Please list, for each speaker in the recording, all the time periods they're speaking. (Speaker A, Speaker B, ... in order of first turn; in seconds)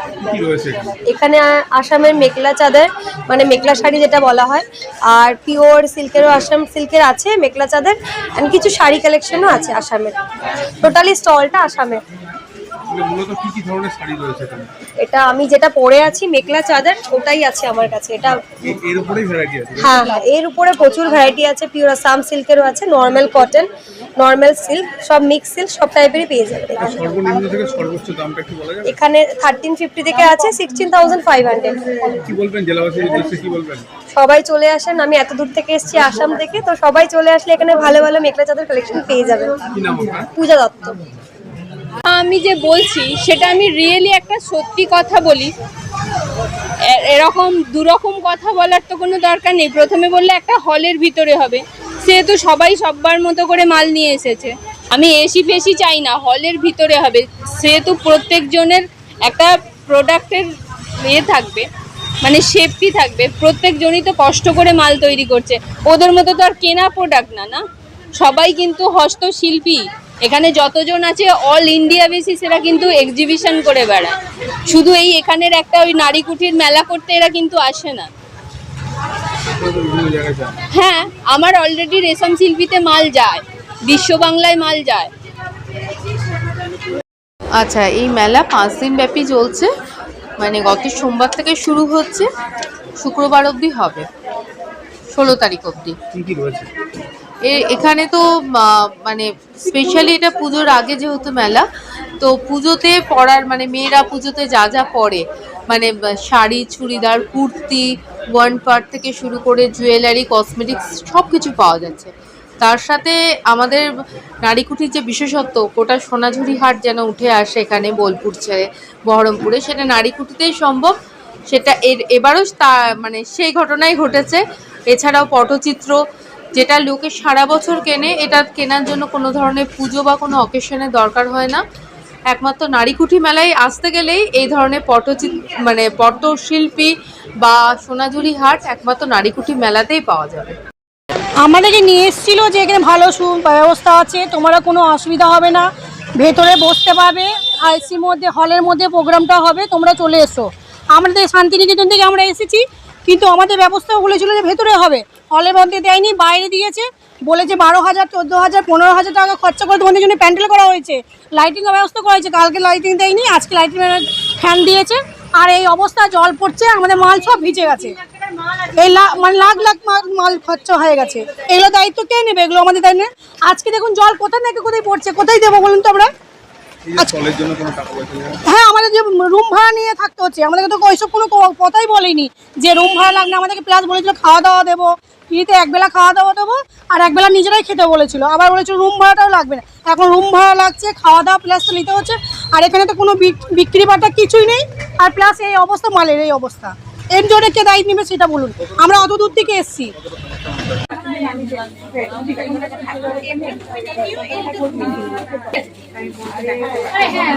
Speaker A: 0.2-0.9, 12.9-14.7, 18.6-19.9, 26.8-29.0, 32.2-33.9, 39.7-40.3, 79.5-80.6, 96.1-96.7, 176.9-178.4
Speaker B: 1.1-10.2, 10.8-12.0, 15.0-18.4, 19.8-23.7, 24.2-26.9, 28.9-31.8, 34.1-39.5, 40.4-41.0
Speaker C: 42.0-45.5, 46.9-60.5, 61.0-61.7, 62.2-67.6, 68.2-74.2, 74.7-78.1, 80.7-85.1
Speaker D: 87.6-89.7, 90.4-92.3, 93.0-94.1, 95.1-96.0, 97.5-101.7, 102.2-113.9, 114.4-120.9, 121.5-126.0, 126.5-131.6, 132.3-140.6
Speaker E: 141.4-168.0, 168.8-176.1, 178.5-200.0